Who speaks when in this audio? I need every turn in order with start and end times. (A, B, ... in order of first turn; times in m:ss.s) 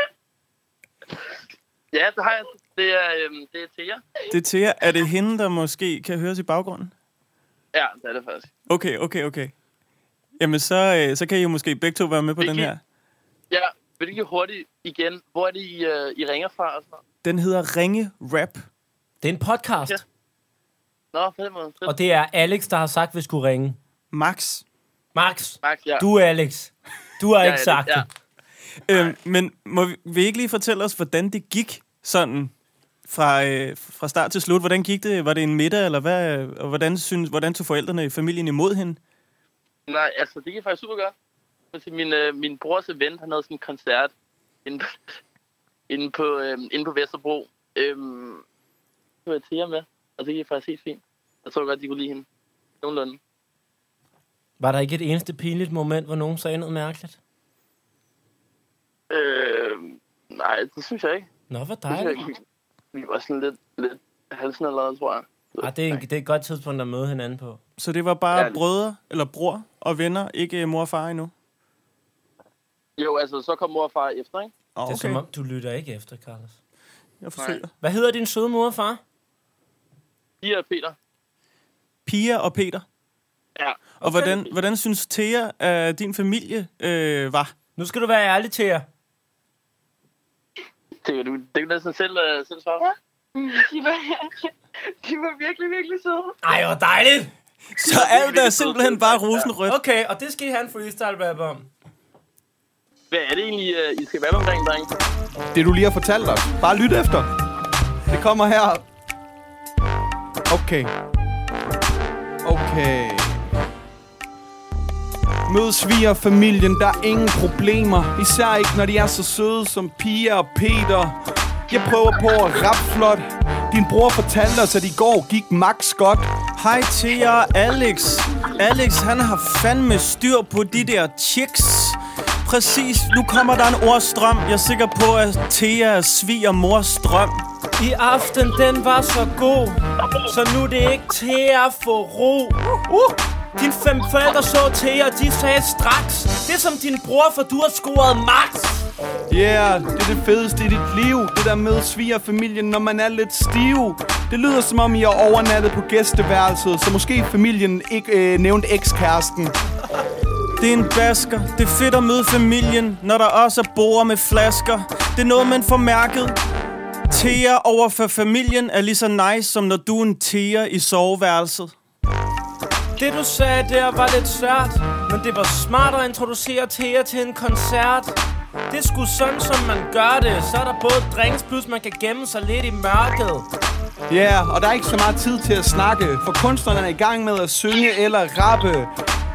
0:01.9-0:04.0 A
0:04.3-0:06.9 B
0:07.7-0:08.5 A
0:08.7-0:09.5 B
0:10.4-0:12.8 B
0:12.4-0:12.7 A
0:13.5-0:17.0 A
0:17.2-0:18.6 B
0:19.2-0:20.0 C
0:21.1-0:21.9 A
0:21.8-0:23.8 C
0:24.1-0:24.6 B
0:25.1-0:28.0 C
0:25.6-0:26.1 A
0:27.4-0:28.0 A
0:28.9-0:32.5 B
0:33.1-0:39.0 B
0:39.9-0:41.1 A
0:41.7-0:44.1 A
0:44.6-0:45.0 A
0:45.9-0:48.4 A
0:49.2-0:52.2 A
0:52.8-0:53.2 A
0:54.6-0:57.2 C
0:59.1-1:01.3 A
1:01.5-1:02.2 C
1:01.9-1:02.4 A
1:02.9-1:06.0 A
1:05.6-1:07.6 C
1:07.8-1:11.3 B
1:08.3-1:08.6 A
1:13.0-1:14.5 A
1:14.7-1:15.2 B
1:14.8-1:16.6 C
1:17.2-1:17.7 B
1:17.4-1:17.6 A
1:17.8-1:19.0 C
1:20.4-1:21.0 A
1:22.0-1:22.8 B
1:23.6-1:23.9 A
1:24.0-1:27.5 B
1:24.0-1:24.3 C
1:27.8-1:28.8 C
1:31.0-1:32.9 A
1:33.3-1:36.4 D
1:36.4-1:37.3 C
1:37.7-1:39.8 B
1:37.8-1:39.5 A
1:39.6-1:41.7 C
1:43.1-1:44.9 A
1:45.5-1:47.3 E
1:48.1-1:48.8 E
1:50.5-1:50.9 E
1:52.4-1:53.5 E
1:55.4-2:01.2 E
2:01.7-2:06.3 E
2:06.6-2:17.4 B
2:17.8-2:22.6 C
2:22.9-2:23.2 E
2:23.6-2:28.9 C
2:29.3-2:39.5 E
2:40.6-2:46.4 B
2:47.1-2:51.7 B
2:53.0-2:58.2 C
2:58.7-3:03.5 C
3:04.1-3:08.9 E